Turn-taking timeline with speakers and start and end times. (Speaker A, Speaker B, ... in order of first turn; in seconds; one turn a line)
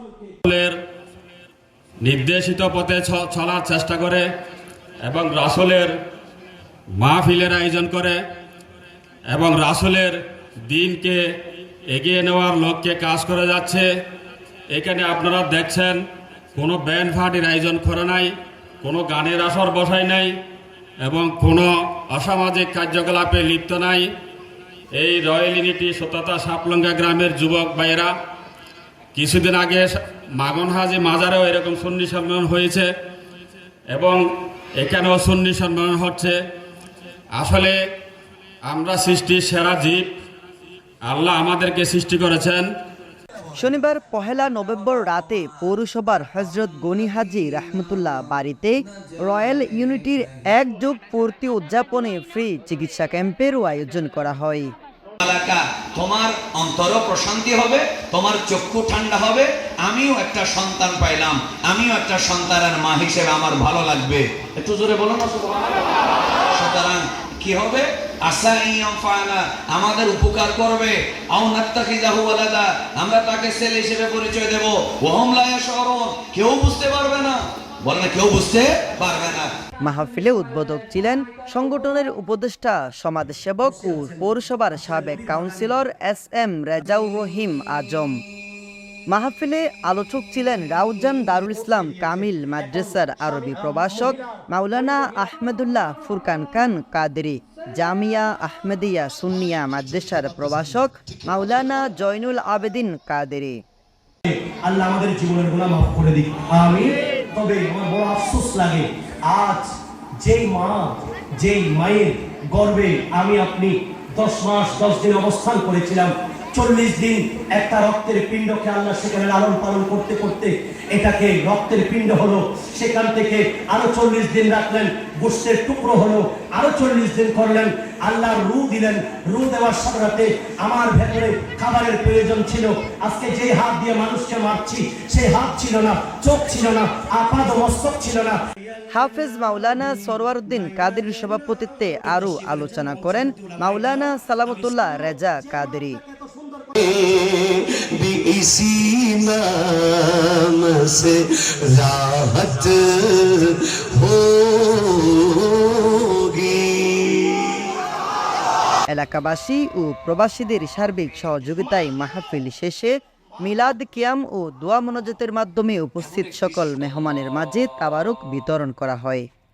Speaker A: 0.5-0.8
Speaker A: 2.0-4.2
Speaker A: 5.0-5.9
Speaker A: 7.0-8.2
Speaker A: 9.3-11.2
Speaker A: 11.9-13.9
Speaker A: 14.7-16.0
Speaker A: 16.6-20.4
Speaker A: 21.0-24.1
Speaker A: 25.0-28.1
Speaker A: 29.1-32.9
Speaker A: 33.9-34.2
Speaker A: 34.8-36.4
Speaker A: 37.4-37.8
Speaker A: 38.7-40.1
Speaker A: 41.1-42.7
Speaker B: 43.5-54.7
Speaker C: 55.2-66.0
Speaker C: 66.5-79.5
Speaker B: 79.8-88.2
Speaker B: 89.1-103.6
Speaker D: 104.3-138.4
Speaker B: 138.9-146.0
Speaker D: 142.9-143.2
Speaker D: 146.1-146.8
Speaker E: 146.8-157.7
Speaker B: 158.9-169.3